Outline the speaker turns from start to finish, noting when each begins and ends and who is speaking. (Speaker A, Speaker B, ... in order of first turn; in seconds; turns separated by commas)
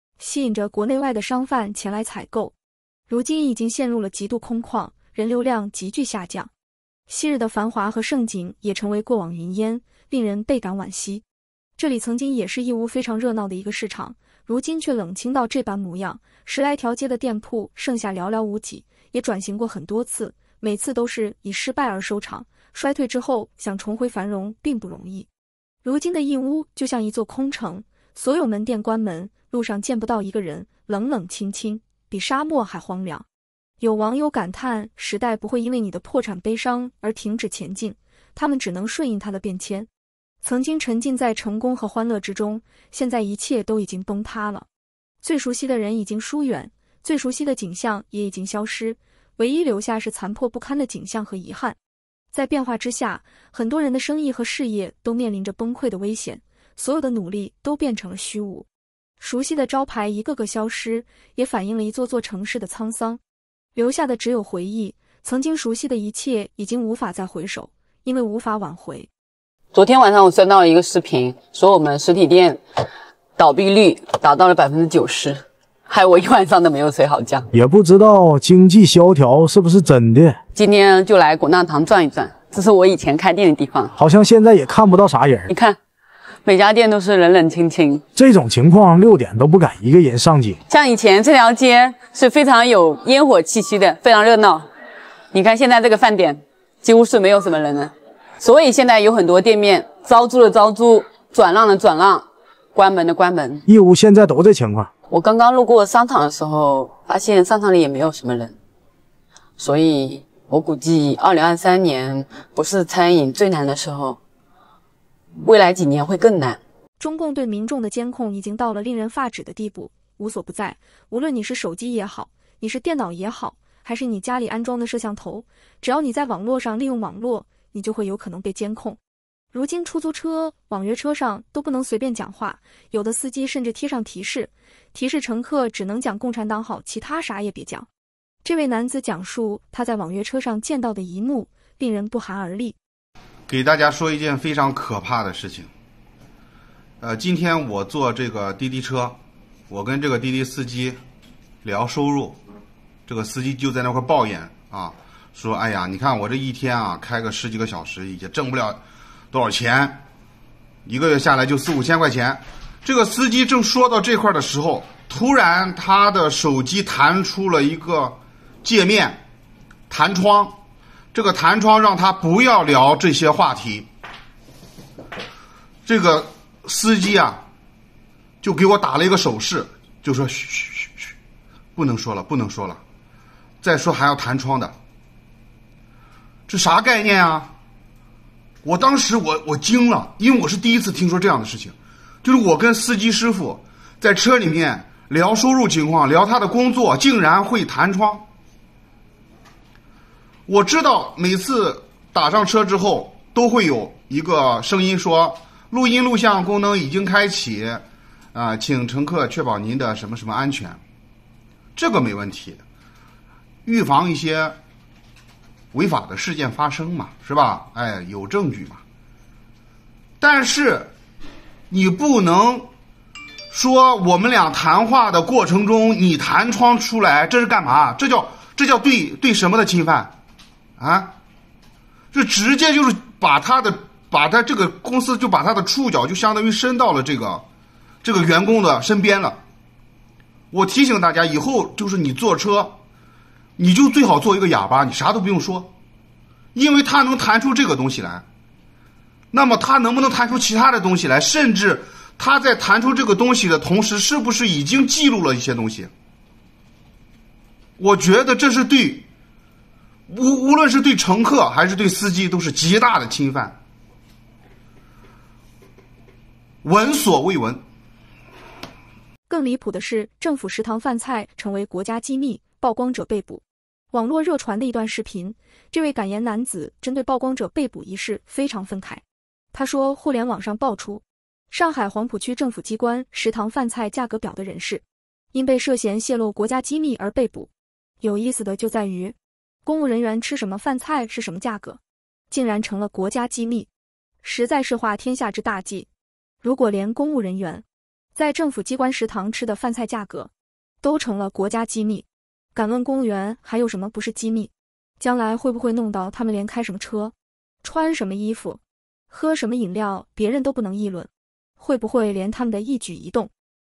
Speaker A: 0.2-2.5, Speaker A: 3.1-6.5, Speaker A: 7.1-11.2, Speaker A: 11.8-25.3, Speaker A: 25.8-33.2, Speaker A: 33.8-39.9, Speaker A: 40.4-44.6, Speaker A: 45.2-51.8, Speaker A: 52.3-58.6, Speaker A: 59.2-63.2, Speaker A: 63.7-69.1, Speaker B: 69.7-72.6, Speaker B: 73.4-77.5, Speaker C: 77.5-80.3, Speaker B: 80.5-83.9, Speaker C: 84.0-85.5, Speaker B: 85.5-85.8, Speaker B: 86.4-88.0, Speaker C: 88.1-90.5, Speaker B: 90.7-94.7, Speaker B: 95.3-103.6, Speaker C: 103.7-104.9, Speaker B: 105.1-108.5, Speaker B: 109.6-114.2, Speaker B: 115.4-116.6, Speaker A: 117.0-129.0, Speaker A: 129.5-137.9, Speaker A: 138.4-142.8, Speaker D: 143.5-145.7, Speaker D: 147.0-149.2, Speaker D: 149.7-151.0, Speaker D: 151.6-152.4, Speaker D: 153.1-160.0, Speaker D: 160.8-169.2, Speaker D: 169.9-170.6, Speaker D: 171.1-173.9, Speaker D: 175.8-177.4, Speaker D: 178.4-181.1, Speaker D: 181.8-182.8, Speaker D: 183.6-184.7, Speaker D: 186.5-187.5, Speaker D: 188.6-198.3, Speaker D: 200.5-210.8, Speaker D: 211.8-212.6, Speaker D: 213.7-214.6, Speaker D: 215.7-218.8, Speaker D: 220.2-220.9, Speaker D: 221.7-222.7, Speaker D: 223.5-230.1, Speaker D: 230.8-231.1, Speaker D: 232.1-237.4, Speaker D: 238.0-239.4, Speaker D: 240.5-242.8, Speaker D: 243.6-245.7, Speaker D: 246.5-248.2, Speaker D: 249.3-255.9, Speaker D: 257.8-259.1, Speaker D: 260.1-263.6, Speaker D: 266.6-267.6, Speaker A: 269.3-284.8, Speaker A: 285.3-287.5, Speaker A: 288.0-291.8, Speaker A: 292.3-293.7, Speaker A: 294.2-295.9, Speaker A: 296.4-297.6, Speaker A: 298.1-300.3, Speaker A: 300.8-313.3